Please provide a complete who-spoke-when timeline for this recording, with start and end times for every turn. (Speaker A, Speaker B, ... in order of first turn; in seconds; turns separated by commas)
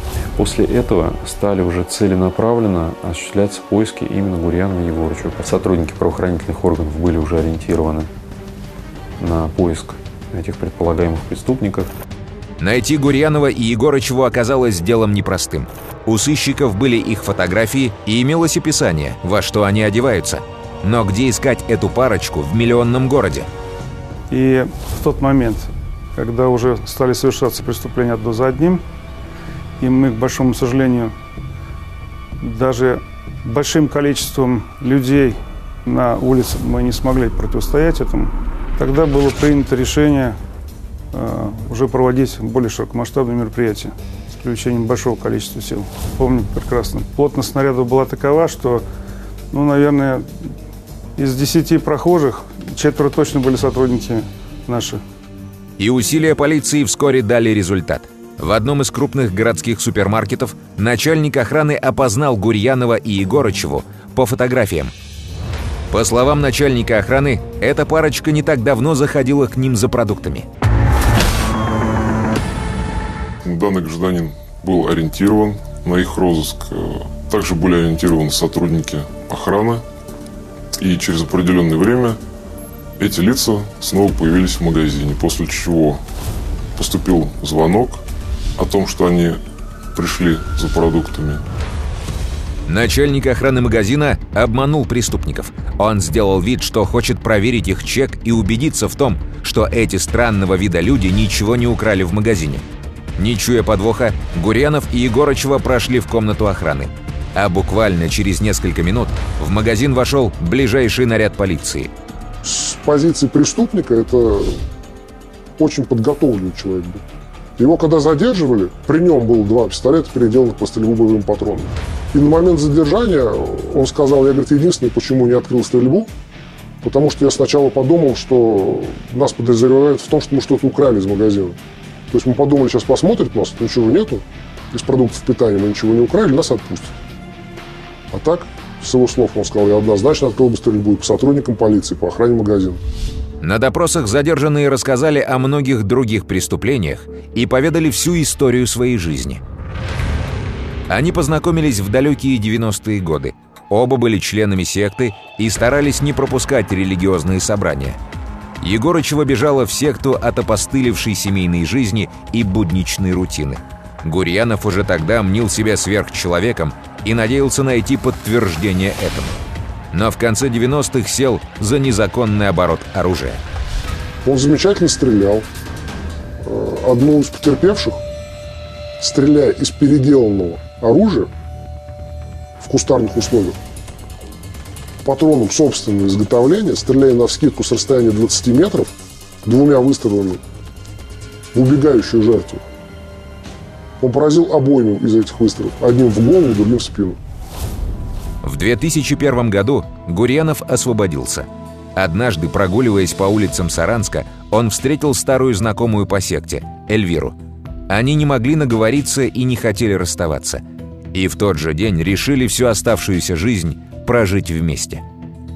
Speaker A: 0.4-8.1, Speaker A: 9.2-11.9, Speaker B: 12.6-23.5, Speaker C: 24.3-28.8, Speaker C: 29.8-31.1, Speaker C: 32.4-40.4, Speaker C: 41.1-48.8, Speaker C: 49.5-50.3, Speaker C: 51.2-55.0, Speaker B: 55.8-64.9, Speaker B: 65.9-70.5, Speaker D: 73.4-79.8, Speaker D: 80.8-82.2, Speaker D: 83.0-86.0, Speaker D: 86.8-88.0, Speaker D: 88.6-89.4, Speaker D: 89.9-91.5, Speaker B: 92.7-102.6, Speaker B: 103.2-111.9, Speaker E: 112.4-114.6, Speaker E: 115.6-117.0, Speaker E: 117.6-126.1, Speaker E: 126.8-131.6, Speaker E: 132.1-137.0, Speaker E: 138.1-142.8, Speaker B: 143.4-149.4, Speaker B: 150.9-158.0, Speaker B: 158.6-169.4, Speaker B: 169.9-173.4, Speaker E: 174.2-175.4, Speaker E: 176.4-178.0, Speaker E: 179.0-181.3, Speaker E: 182.6-183.6, Speaker E: 185.0-188.9, Speaker E: 189.4-190.4, Speaker E: 191.5-192.6, Speaker E: 194.0-197.2, Speaker B: 198.4-207.3, Speaker B: 207.9-210.6, Speaker B: 211.1-215.0